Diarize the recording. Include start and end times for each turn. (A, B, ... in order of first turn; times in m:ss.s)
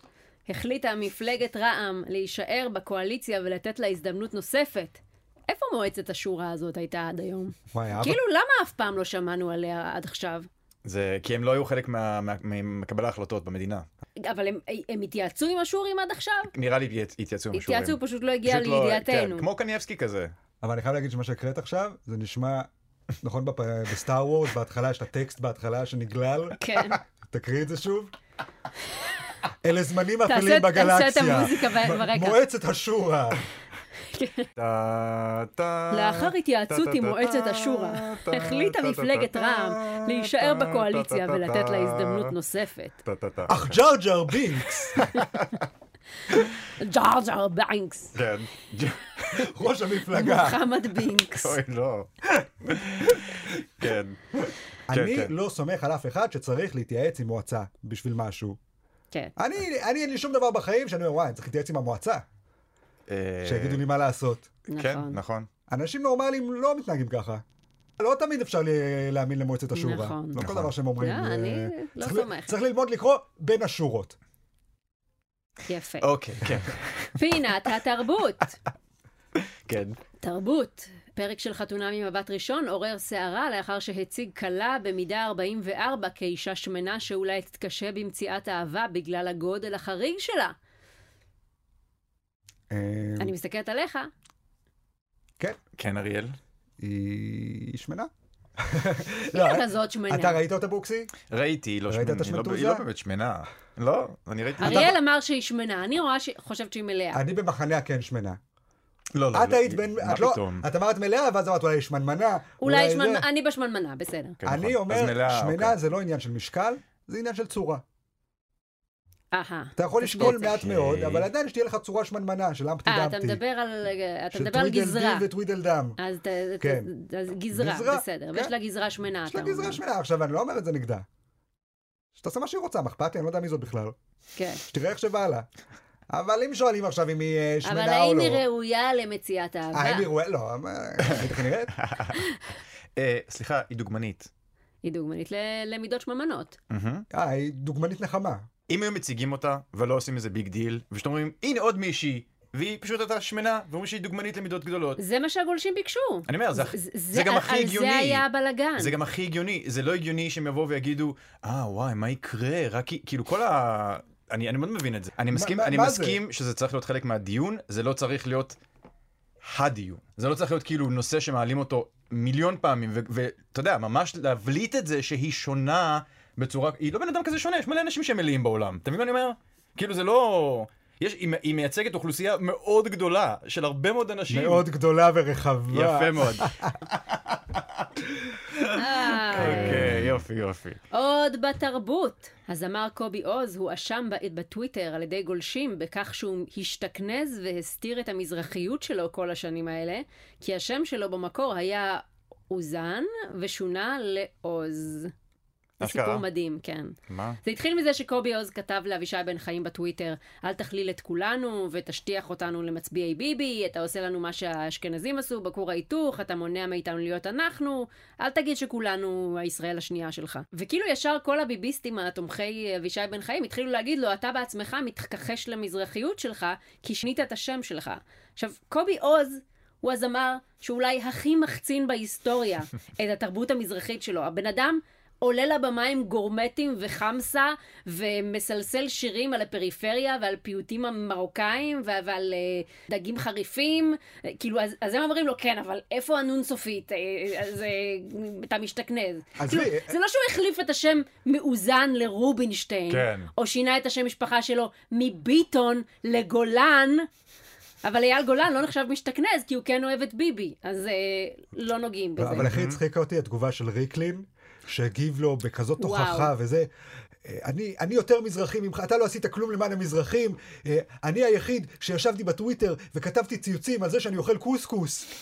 0:00.5-0:10.5 A
0:07.7-0:08.2 B
0:10.8-0:13.8 C
0:14.2-0:16.5 A
0:16.5-0:20.3 C
0:17.5-0:19.5 A
0:20.6-0:22.7 B
0:23.2-0:28.1 B
0:26.6-0:27.0 A
0:29.6-0:33.4 B
0:30.2-0:32.4 A
0:34.1-0:34.5 A
0:34.6-0:42.3 C
0:35.9-0:43.0 A
0:43.0-0:43.8 C
0:43.5-0:45.0 B
0:44.9-0:45.6 C
0:46.7-0:48.1 A
0:48.1-0:49.5 C
0:49.3-0:50.6 B
0:50.1-0:51.6 A
0:51.4-0:55.3 C
0:54.9-0:58.6 B
0:59.4-1:02.2 B
1:03.1-1:03.8 C
1:03.4-1:04.5 B
1:04.7-1:05.2 A
1:04.8-1:05.5 C
1:05.7-1:07.4 B
1:08.0-1:14.2 B
1:09.7-1:10.4 A
1:10.4-1:10.7 C
1:11.0-1:12.5 A
1:15.7-1:16.1 A
1:16.0-1:17.2 C
1:17.2-1:18.6 A
1:19.4-1:20.0 C
1:20.2-1:30.5 A
1:32.7-1:33.3 B
1:33.2-1:34.1 A
1:35.8-1:36.4 C
1:36.8-1:41.1 B
1:39.3-1:40.4 A
1:41.3-1:44.9 C
1:41.9-1:42.8 B
1:44.6-1:47.2 A
1:44.6-1:45.0 B
1:47.1-1:48.4 B
1:49.1-1:50.6 C
1:49.3-1:53.2 B
1:52.6-1:54.4 A
1:54.4-1:55.8 C
1:54.4-1:57.8 B
1:59.3-2:00.6 A
1:59.8-2:03.4 B
2:00.2-2:01.3 C
2:02.8-2:05.3 A
2:04.3-2:06.0 B
2:06.0-2:09.8 A
2:06.6-2:06.9 B
2:07.5-2:08.5 B
2:09.3-2:11.0 B
2:12.2-2:14.0 B
2:14.4-2:14.6 A
2:14.6-2:15.5 B
2:16.1-2:18.4 B
2:17.6-2:20.1 A
2:19.7-2:21.7 B
2:21.0-2:22.2 C
2:23.0-2:24.3 C
2:24.8-2:26.6 A
2:26.7-2:27.0 C
2:27.1-2:28.5 B
2:28.7-2:35.0 C
2:35.0-2:38.9 A
2:36.3-2:38.2 C
2:38.8-2:48.6 C
2:45.3-2:46.2 B
2:49.4-3:04.6 C
3:04.3-3:06.7 B
3:05.7-3:07.9 C
3:08.5-3:10.8 C
3:08.7-3:09.9 A
3:09.4-3:10.0 B
3:10.9-3:25.1 A
3:25.8-3:26.2 C
3:25.8-4:17.1 A
3:27.1-3:27.4 C
4:09.4-4:10.0 B
4:12.9-4:13.3 C
4:17.8-4:22.5 A
4:22.2-4:26.7 B
4:22.4-4:22.8 C
4:25.8-4:26.3 A
4:27.2-4:35.1 B